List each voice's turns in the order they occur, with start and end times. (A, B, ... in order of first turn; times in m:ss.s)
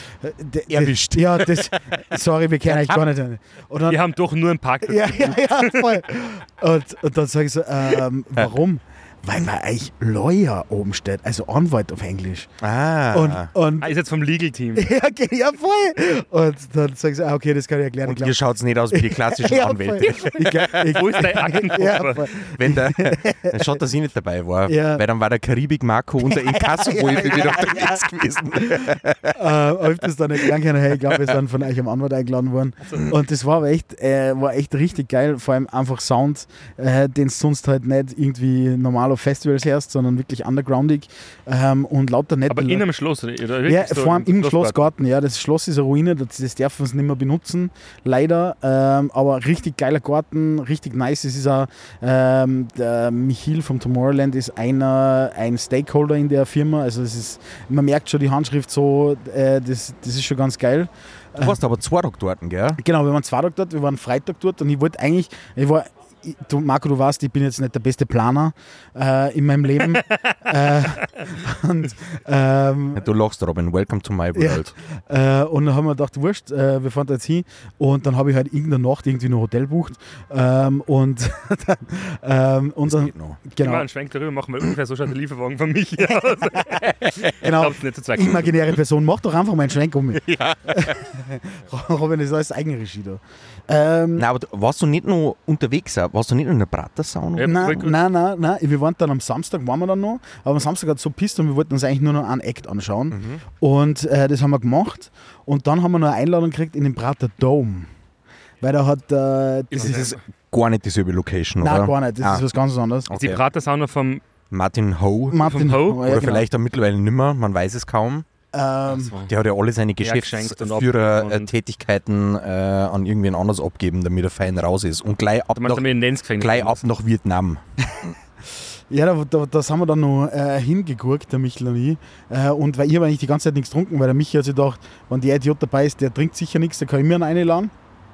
0:00.2-0:04.0 A
0:00.7-0:01.7 B
0:02.7-0:03.0 B
0:03.9-0:06.0 C
0:04.8-0:12.5 A
0:12.6-0:13.5 B
0:13.1-0:13.9 A
0:13.8-0:14.9 C
0:14.8-0:18.4 A
0:18.0-0:20.8 B
0:18.9-0:23.7 A
0:20.7-0:22.3 C
0:22.4-0:29.4 B
0:24.7-0:25.0 A
0:26.2-0:28.0 A
0:28.6-0:42.8 A
0:32.8-0:33.1 C
0:42.5-0:44.8 C
0:43.6-1:01.6 A
1:01.4-1:02.8 B
1:02.8-1:13.0 A
1:10.0-1:10.3 C
1:13.0-1:14.7 B
1:14.4-1:23.9 A
1:22.8-1:23.4 B
1:23.6-1:28.5 C
1:26.9-1:27.2 B
1:27.2-1:34.2 A
1:30.2-1:31.0 B
1:34.2-1:37.9 B
1:37.4-1:38.0 C
1:37.4-1:47.9 A
1:43.1-1:43.4 B
1:48.6-1:50.1 A
1:49.7-1:50.2 C
1:49.8-1:52.4 B
1:51.6-1:53.1 A
1:53.1-1:53.4 B
1:53.1-1:54.2 C
1:54.5-1:58.3 B
1:55.3-1:56.4 A
1:55.4-1:56.4 C
1:58.5-1:59.2 A
1:58.9-1:59.3 C
1:59.2-2:08.1 B
2:00.0-2:01.5 C
2:05.6-2:06.8 C
2:08.9-2:17.7 A